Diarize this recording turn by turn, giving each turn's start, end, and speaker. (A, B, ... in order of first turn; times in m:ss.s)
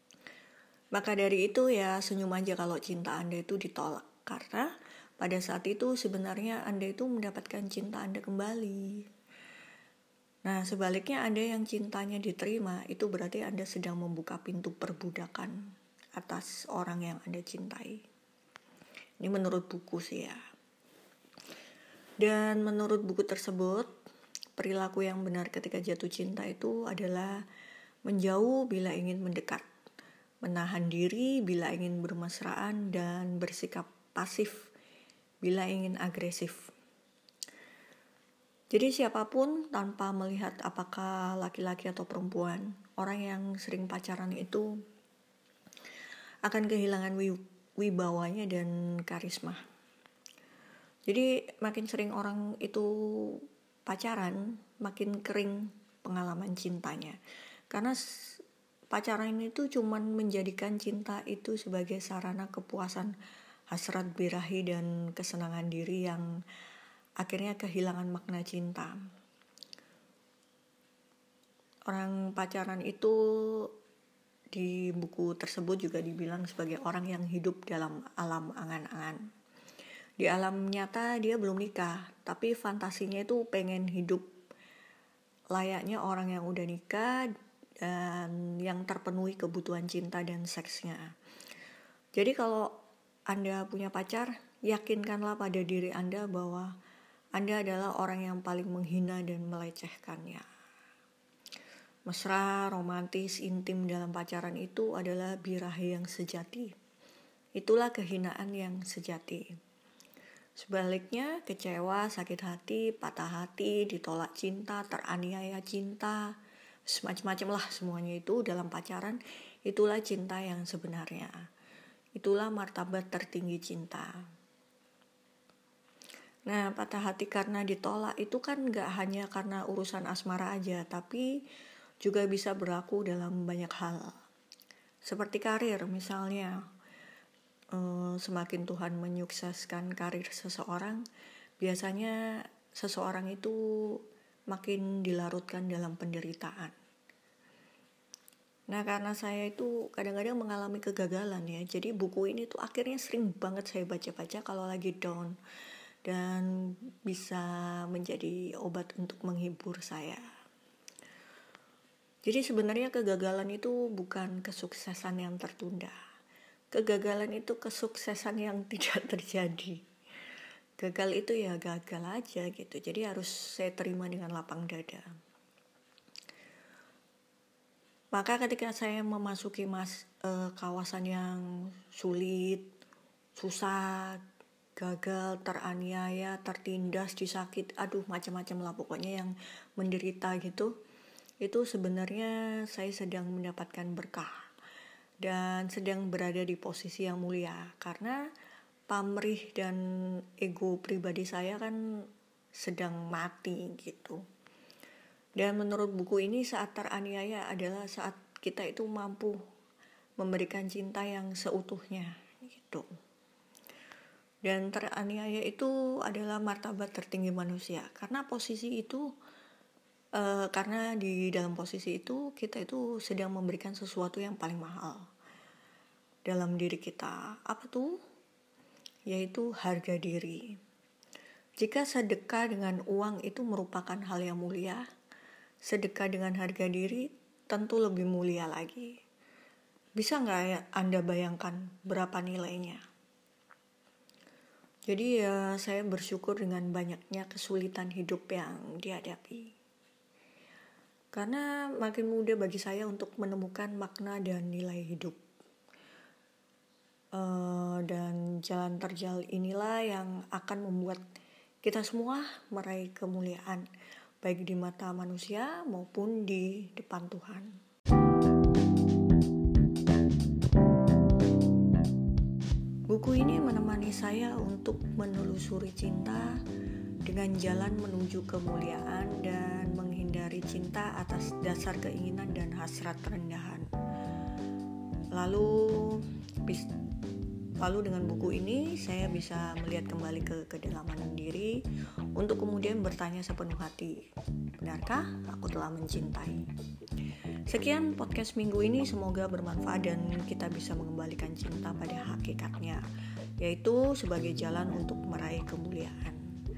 0:00.9-0:09.1 A
0:10.4-0:15.6 A
0:16.2-0:18.0 A
0:19.2-0:20.4 A
0:22.2-0:23.9 A
0:24.6-0:27.4 A
0:28.0-0:29.7 A
0:30.4-0:34.7 A
0:35.4-0:36.7 A
0:38.7-0:44.8 A
0:46.4-0:49.6 A
0:51.1-0:57.2 A
0:57.7-1:03.1 A
1:03.7-1:06.3 A
1:07.2-1:09.0 A
1:11.9-1:13.7 A
1:14.5-1:19.3 A
1:20.2-1:24.3 A
1:25.5-1:27.3 A
1:27.8-1:31.2 A
1:32.2-1:32.8 A
1:33.3-1:36.8 A
1:37.4-1:40.4 A
1:42.1-1:46.7 A
1:47.6-1:49.5 A
1:50.6-1:56.4 A
1:56.9-2:01.4 A
2:02.2-2:04.2 A
2:06.5-2:11.4 A
2:12.0-2:14.2 A
2:15.0-2:16.6 A
2:17.7-2:21.0 A
2:21.6-2:26.8 A
2:28.7-2:35.4 A
2:36.0-2:40.2 A
2:42.2-2:45.9 A
2:46.7-2:49.8 A
2:50.8-2:55.1 A
2:58.1-3:02.7 A
3:03.4-3:04.2 A
3:04.8-3:10.8 A
3:11.4-3:14.4 A
3:15.2-3:18.2 A
3:18.9-3:24.2 A
3:25.4-3:29.4 A
3:30.2-3:32.9 A
3:34.4-3:39.1 A
3:40.2-3:45.1 A
3:46.2-3:48.0 A
3:49.1-3:50.6 A
3:51.6-3:54.8 A
3:55.6-3:59.0 A
4:00.0-4:02.8 A
4:04.9-4:09.5 A
4:11.1-4:15.2 A
4:17.1-4:21.0 A
4:21.6-4:23.7 A
4:24.2-4:27.5 A
4:32.9-4:36.4 A
4:37.0-4:43.7 A
4:45.1-4:46.7 A
4:47.6-4:51.6 A
4:52.2-4:54.0 A
4:54.6-4:56.5 A
4:57.5-5:02.8 A
5:03.4-5:06.3 A